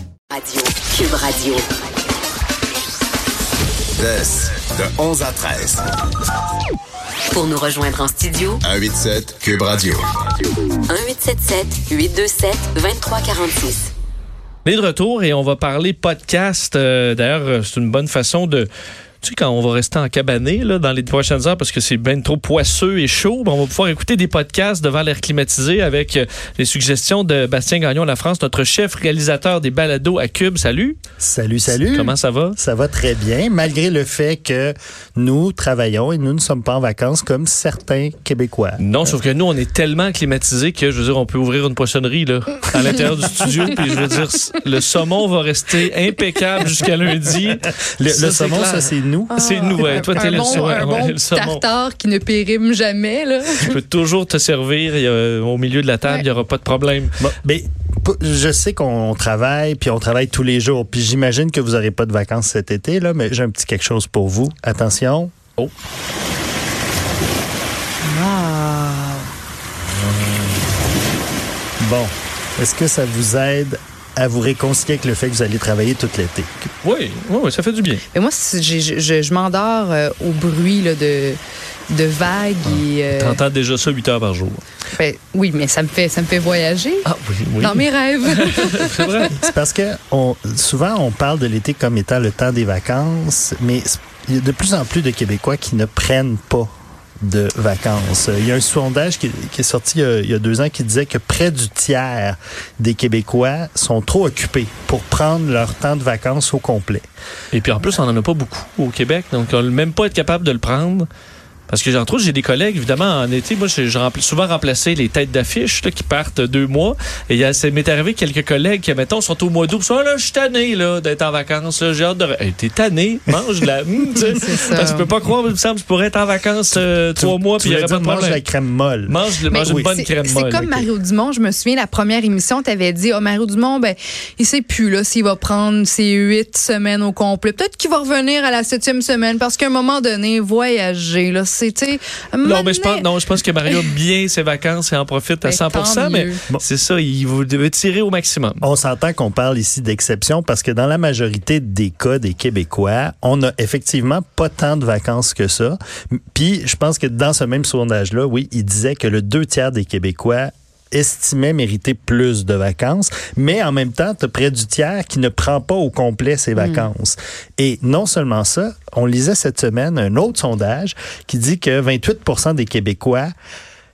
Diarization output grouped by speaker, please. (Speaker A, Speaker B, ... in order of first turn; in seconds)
Speaker A: 0.3-1.6, 7.3-8.6, 10.9-13.9
Speaker B: 4.0-5.8, 8.6-10.1
Speaker C: 14.6-18.7, 19.2-31.0, 31.7-32.5, 38.8-51.6, 53.6-57.1, 76.8-78.0, 82.6-84.6, 87.0-89.3, 107.5-111.1, 111.7-128.4, 129.1-130.9, 142.4-148.6
Speaker D: 31.2-38.8, 47.8-50.6, 57.2-65.3, 71.8-76.7, 89.3-96.7, 97.2-107.0, 127.2-129.9, 148.6-155.8, 156.3-173.3
Speaker E: 49.3-53.7, 68.0-69.3, 78.1-81.4, 81.9-83.4, 84.9-87.0, 87.6-89.3, 124.3-125.1, 129.5-143.1, 145.4-146.4, 166.6-166.9